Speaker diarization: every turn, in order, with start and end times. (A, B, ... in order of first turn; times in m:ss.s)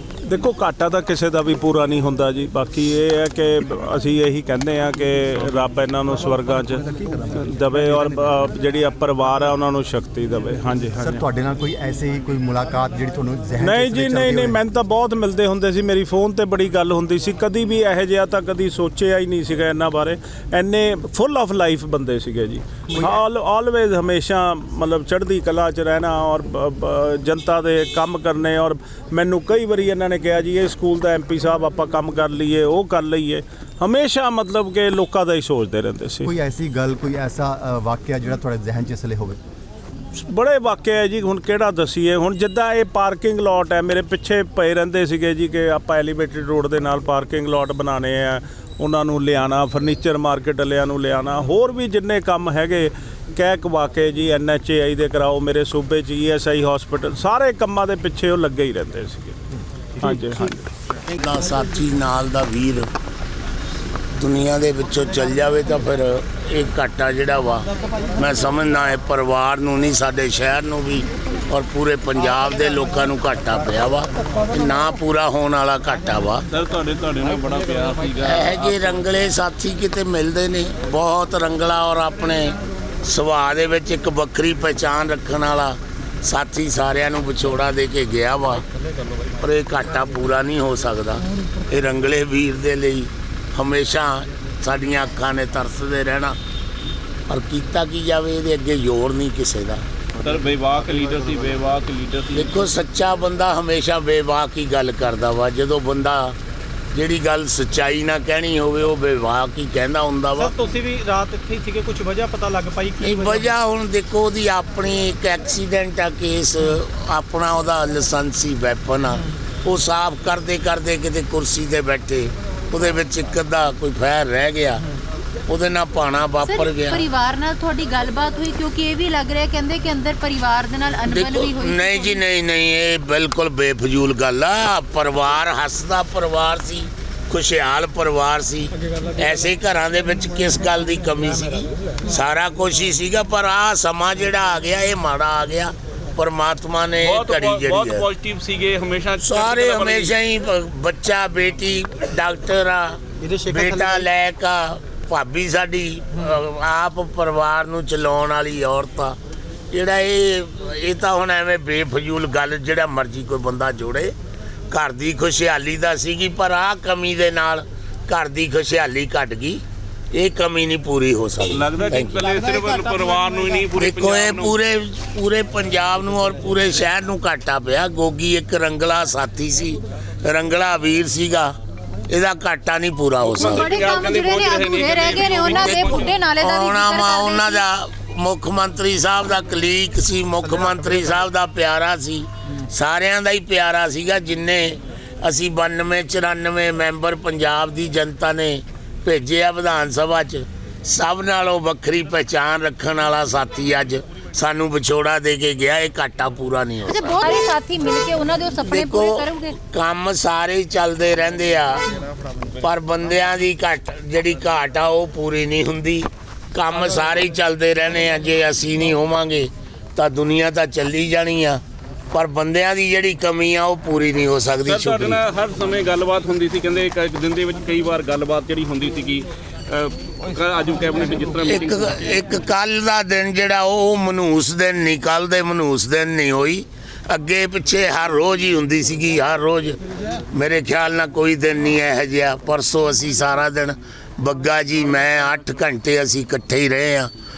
0:00.2-0:11.2 A
0:11.0-0:14.6 B
0:13.6-0:36.3 A
0:36.2-0:39.4 B
0:40.1-0:59.4 A
1:00.0-1:00.7 A
1:01.1-1:02.9 C
1:04.2-1:16.4 C
1:16.5-1:18.9 D
1:18.2-1:28.6 C
1:29.4-1:36.4 C
1:37.3-1:39.8 C
1:40.2-1:42.6 D
1:42.3-1:46.3 C
1:46.9-1:50.5 C
1:50.6-1:53.0 E
1:53.0-2:04.8 C
2:05.5-2:07.1 C
2:06.4-2:12.2 F
2:11.1-2:28.0 C
2:27.0-2:30.2 D
2:29.2-2:39.2 C
2:33.4-2:33.8 E
2:39.7-2:44.2 C
2:44.7-2:49.6 C
2:50.1-2:52.3 C
2:51.5-2:54.5 D
2:53.7-3:01.6 C
3:02.1-3:03.8 C
3:03.3-3:06.2 D
3:03.4-3:07.6 F
3:05.5-3:27.5 C
3:26.8-3:29.6 F
3:28.7-3:31.8 C
3:32.6-3:45.2 C
3:44.7-3:51.9 D
3:51.4-3:59.8 C
4:00.3-4:07.1 C